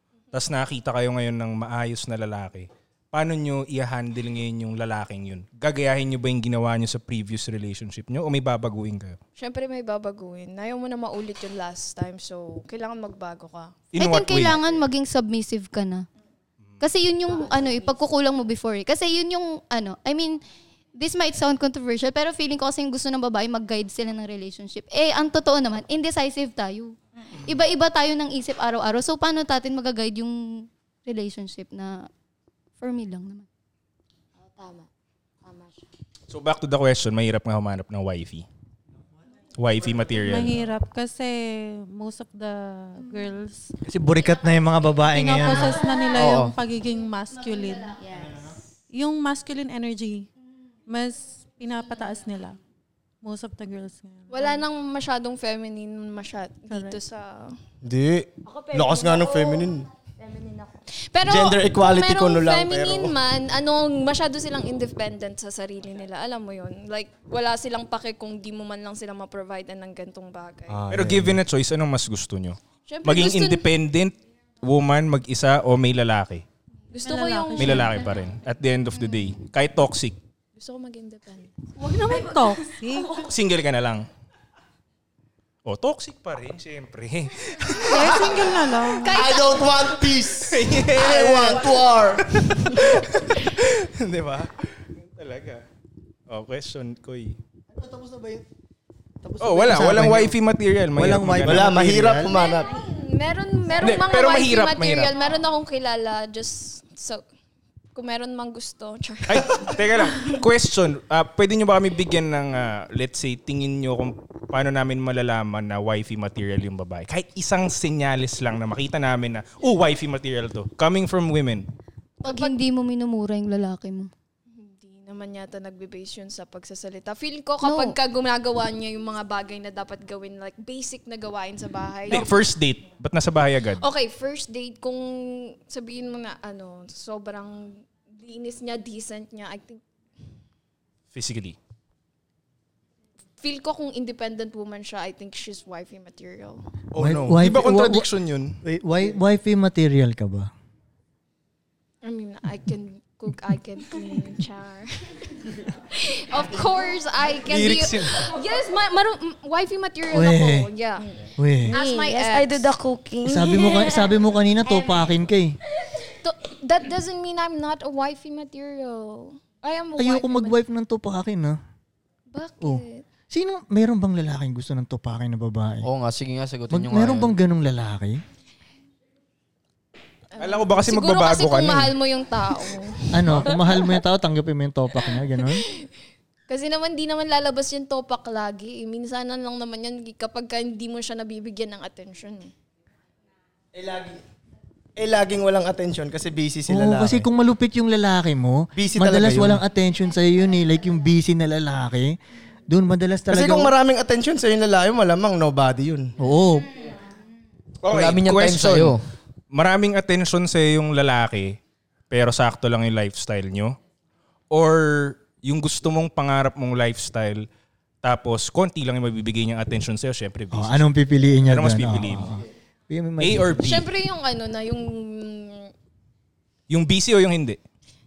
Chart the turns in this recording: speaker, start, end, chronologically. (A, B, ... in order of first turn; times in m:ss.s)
0:00.3-0:09.2 A
0:09.4-0:13.8 B
0:13.9-0:14.6 A
0:14.0-0:16.1 C
0:16.8-0:20.4 C
0:21.0-0:32.1 C
0:32.8-0:33.5 C
0:34.4-0:34.9 D
0:35.4-0:35.8 D
0:36.3-0:38.5 A
0:39.6-0:40.6 A
0:40.2-0:43.7 E
0:43.8-0:45.8 F
0:45.1-0:48.0 E
0:46.1-0:46.5 G
0:48.1-0:48.4 D
0:48.9-0:50.3 E
0:50.9-0:52.6 E
0:53.2-0:54.6 E
0:54.3-0:57.6 B
0:56.7-0:57.0 E
0:57.8-0:59.8 H
0:58.4-1:00.8 D
1:01.1-1:10.8 B
1:01.2-1:03.1 H
1:10.7-1:11.4 H
1:10.9-1:16.4 A
1:12.9-1:13.7 B
1:16.9-1:18.2 B
1:17.0-1:18.1 E
1:17.6-1:20.2 A
1:20.6-1:21.5 B
1:21.8-1:23.3 E
1:23.2-1:24.1 A
1:25.6-1:28.0 A
1:27.8-1:29.3 E
1:28.0-1:28.4 H
1:29.0-1:30.1 B
1:29.2-1:32.8 H
1:30.4-1:35.6 A
1:36.3-1:37.4 A
1:37.7-1:38.4 F
1:39.2-1:40.4 F
1:39.4-1:41.7 A
1:40.9-1:42.3 F
1:41.4-1:42.7 H
1:42.3-1:47.2 B
1:43.8-1:45.2 A
1:48.0-1:49.7 B
1:49.3-2:01.7 A
2:02.2-2:04.1 C
2:02.2-2:02.6 B
2:04.5-2:12.4 B
2:07.6-2:08.0 C
2:12.1-2:13.8 A
2:13.8-2:19.8 B
2:21.1-2:21.6 A
2:23.4-2:26.6 B
2:26.9-2:28.6 A
2:27.0-2:28.1 F
2:28.6-2:30.5 F
2:32.0-2:41.1 B
2:37.5-2:38.3 A
2:40.1-2:40.7 F
2:41.4-2:41.8 F
2:41.7-2:45.1 D
2:41.7-2:42.7 B
2:43.2-2:45.6 F
2:46.1-2:50.6 B
2:50.0-2:51.6 F
2:52.3-2:53.0 B
2:52.6-2:55.9 F
2:55.8-2:57.4 G
2:56.7-2:58.2 F
3:00.3-3:03.5 B
3:00.4-3:01.9 A
3:03.1-3:05.6 F
3:06.5-3:12.5 B
3:13.8-3:14.1 H
3:15.0-3:17.3 H
3:16.7-3:22.2 F
3:18.8-3:19.6 H
3:22.7-3:23.7 F
3:23.3-3:26.1 H
3:26.2-3:26.7 F
3:27.8-3:29.0 A
3:27.9-3:29.0 G
3:29.5-3:31.6 A
3:32.1-3:33.8 A
3:34.5-3:37.4 A
3:38.0-3:40.9 A
3:40.5-3:43.7 F
3:41.4-3:42.4 A
3:43.2-3:43.8 A
3:43.6-3:45.7 B
3:46.7-3:47.6 A